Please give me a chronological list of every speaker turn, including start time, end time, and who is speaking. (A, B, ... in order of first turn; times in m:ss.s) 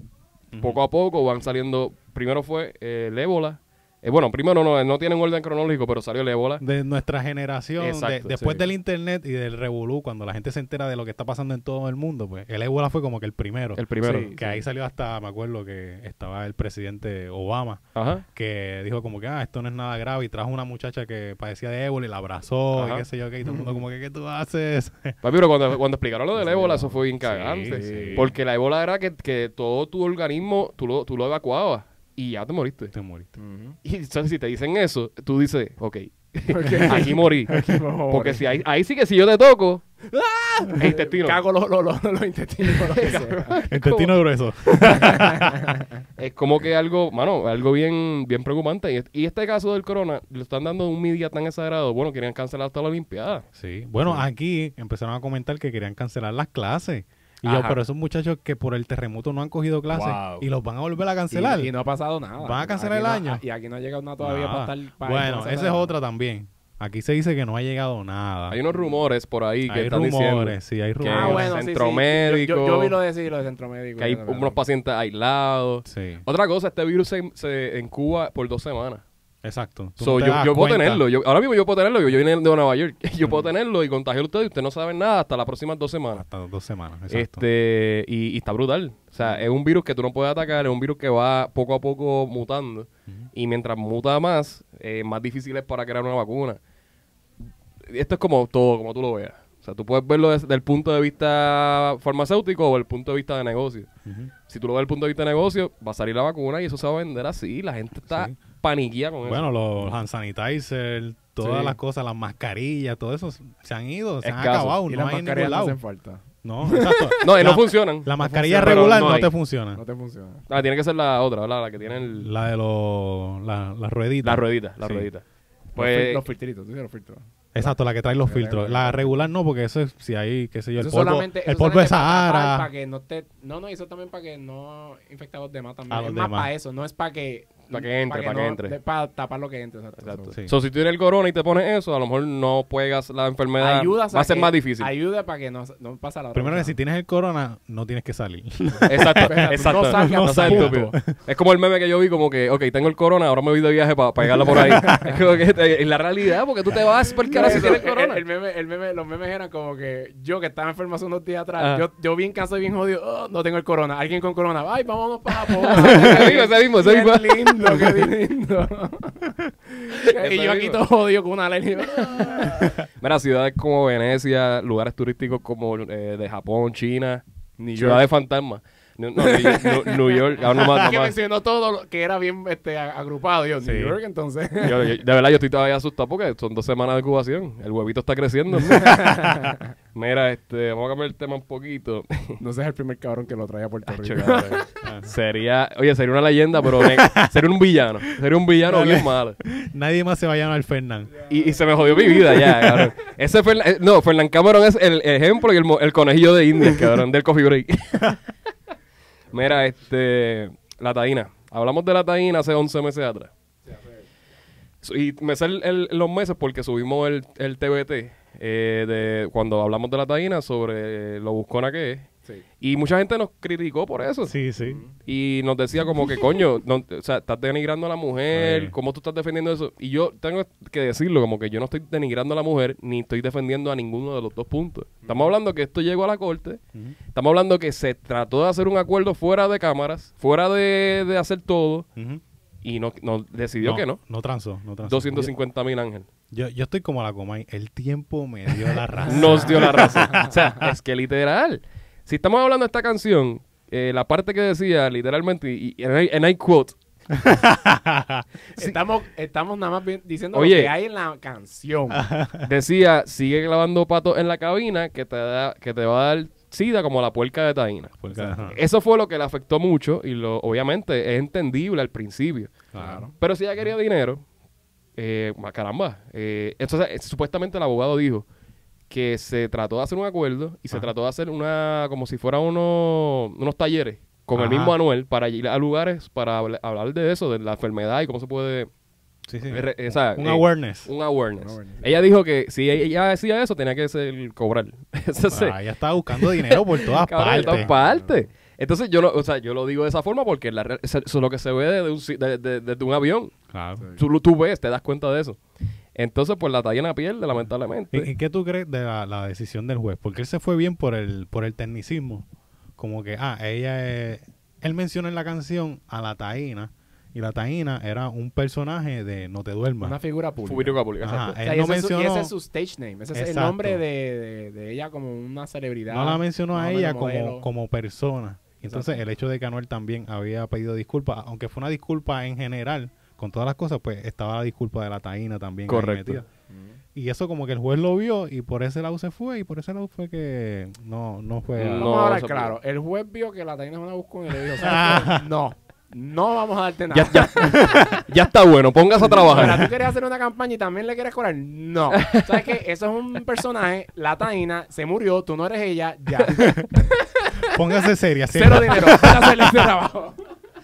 0:00.5-0:00.8 A
0:00.6-0:06.6 B
0:06.6-0:25.2 A
0:07.8-0:08.6 B
0:13.8-0:14.3 B
0:14.0-0:14.6 C
0:18.0-0:18.2 B
0:22.8-0:23.0 B
0:23.4-0:23.7 C
0:25.2-0:32.9 B
0:26.4-0:27.0 C
0:27.2-0:28.3 A
0:27.7-0:28.3 C
0:32.9-0:33.3 A
0:33.4-0:33.8 C
0:33.8-0:39.8 B
0:36.5-0:38.5 C
0:40.1-0:43.6 C
0:40.8-0:41.4 B
0:42.7-0:44.1 B
0:43.7-0:45.5 A
0:44.7-0:46.0 C
0:46.2-0:53.5 B
0:53.5-1:01.7 A
0:57.4-0:57.8 B
0:59.9-1:00.5 B
1:01.3-1:05.9 C
1:02.4-1:03.4 A
1:04.2-1:08.6 A
1:08.5-1:13.0 B
1:09.7-1:11.5 A
1:11.1-1:14.6 C
1:14.0-1:19.0 B
1:15.9-1:16.2 A
1:19.4-1:21.0 A
1:20.0-1:26.2 B
1:26.1-1:27.4 A
1:27.1-1:36.6 B
1:37.9-1:43.9 B
1:44.0-1:44.3 A
1:44.5-1:49.5 B
1:48.1-1:48.4 A
1:49.2-1:55.8 A
1:51.4-1:51.7 B
1:54.2-1:54.8 B
1:54.9-1:57.4 C
1:56.4-1:59.8 A
1:57.2-1:59.3 B
1:58.2-1:59.1 C
1:59.8-2:00.4 C
2:00.5-2:02.3 B
2:02.2-2:05.1 A
2:04.2-2:05.2 B
2:05.8-2:06.2 B
2:05.8-2:09.2 C
2:07.5-2:12.7 A
2:10.8-2:20.4 C
2:15.9-2:16.5 A
2:17.7-2:18.8 B
2:20.0-2:24.9 B
2:23.6-2:26.8 C
2:26.3-2:31.1 A
2:28.9-2:38.2 B
2:29.1-2:31.0 C
2:34.7-2:35.1 C
2:37.3-2:52.8 C
2:41.6-2:41.8 B
2:45.5-2:48.1 B
2:49.9-2:50.8 B
2:52.0-2:57.2 B
2:57.6-2:58.0 C
2:57.8-3:01.1 B
2:59.2-3:04.9 C
3:03.6-3:04.0 A
3:04.6-3:09.4 B
3:08.7-3:09.7 C
3:09.9-3:12.4 B
3:12.4-3:14.6 C
3:13.9-3:19.4 B
3:14.8-3:15.1 A
3:16.8-3:17.4 A
3:18.6-3:21.2 A
3:21.3-3:28.2 B
3:22.3-3:22.9 A
3:29.3-3:33.3 B
3:33.6-3:34.0 C
3:34.8-3:42.1 B
3:42.6-3:44.4 B
3:44.2-3:44.8 A
3:44.6-3:44.9 C
3:45.0-3:56.6 B
3:48.3-3:48.8 A
3:55.0-3:55.3 C
3:57.1-4:01.9 B
4:02.0-4:02.2 A
4:02.6-4:04.0 B
4:03.6-4:05.3 A
4:04.8-4:06.1 B
4:06.3-4:10.3 A
4:09.0-4:10.4 C
4:09.1-4:16.8 B
4:17.1-4:18.2 A
4:18.6-4:22.1 C
4:20.3-4:20.7 B
4:21.9-4:22.5 A
4:22.4-4:34.2 B
4:28.0-4:28.6 A
4:28.1-4:28.5 C
4:32.7-4:33.0 A
4:32.8-4:33.1 C
4:35.0-4:38.3 B
4:38.9-4:48.7 B
4:44.4-4:44.8 A
4:49.3-4:50.9 A
4:49.5-4:55.6 B
4:51.4-4:52.0 C
4:55.3-4:57.7 A
4:56.1-5:03.4 B
4:57.3-4:58.2 C
5:03.5-5:03.8 A
5:04.0-5:05.4 B
5:06.0-5:08.1 B
5:07.9-5:12.2 A
5:12.8-5:20.0 A
5:19.8-5:20.8 C
5:20.4-5:21.4 B
5:21.0-5:22.3 A
5:21.4-5:27.5 C
5:23.1-5:23.8 A
5:25.9-5:36.2 A
5:28.6-5:29.0 C
5:35.7-5:36.2 B
5:36.5-5:36.8 C
5:37.0-5:41.9 A
5:41.6-5:42.5 B
5:41.8-5:48.0 C
5:44.6-5:45.2 A
5:46.9-5:49.7 B
5:47.5-5:47.9 A
5:49.0-5:57.5 C
5:49.3-5:49.7 A
5:51.9-5:52.5 B
5:56.4-5:56.6 A
5:57.5-5:59.5 A
5:58.3-6:00.2 C